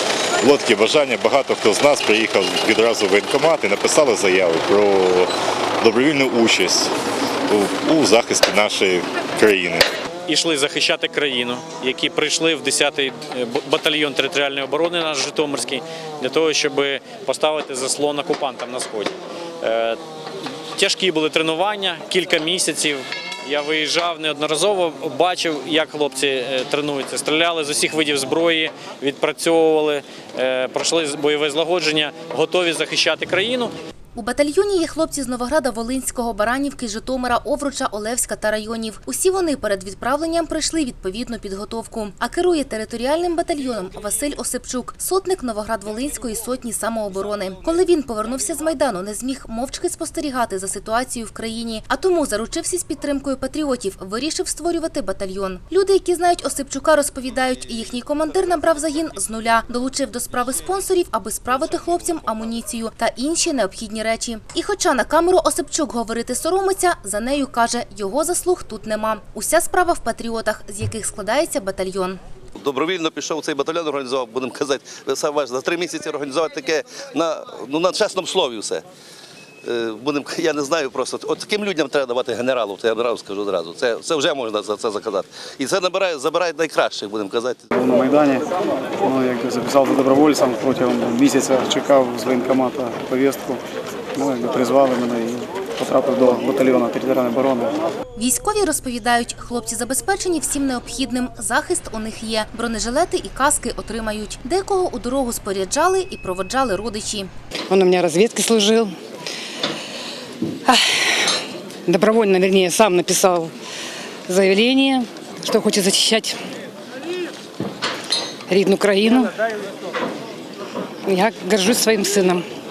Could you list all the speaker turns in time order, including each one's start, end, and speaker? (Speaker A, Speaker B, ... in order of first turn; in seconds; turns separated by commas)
Speaker A: 0.4-6.9, Speaker A: 7.5-9.9, Speaker B: 10.3-20.0, Speaker B: 20.8-33.7, Speaker C: 34.1-72.2, Speaker D: 72.6-78.8, Speaker D: 79.6-87.7, Speaker E: 87.8-88.5, Speaker E: 89.0-93.6, Speaker E: 94.2-97.8, Speaker C: 98.2-107.3, Speaker F: 107.7-109.0, Speaker F: 110.7-111.3, Speaker F: 111.9-113.5, Speaker F: 114.3-116.4, Speaker F: 118.5-119.3, Speaker F: 121.1-122.5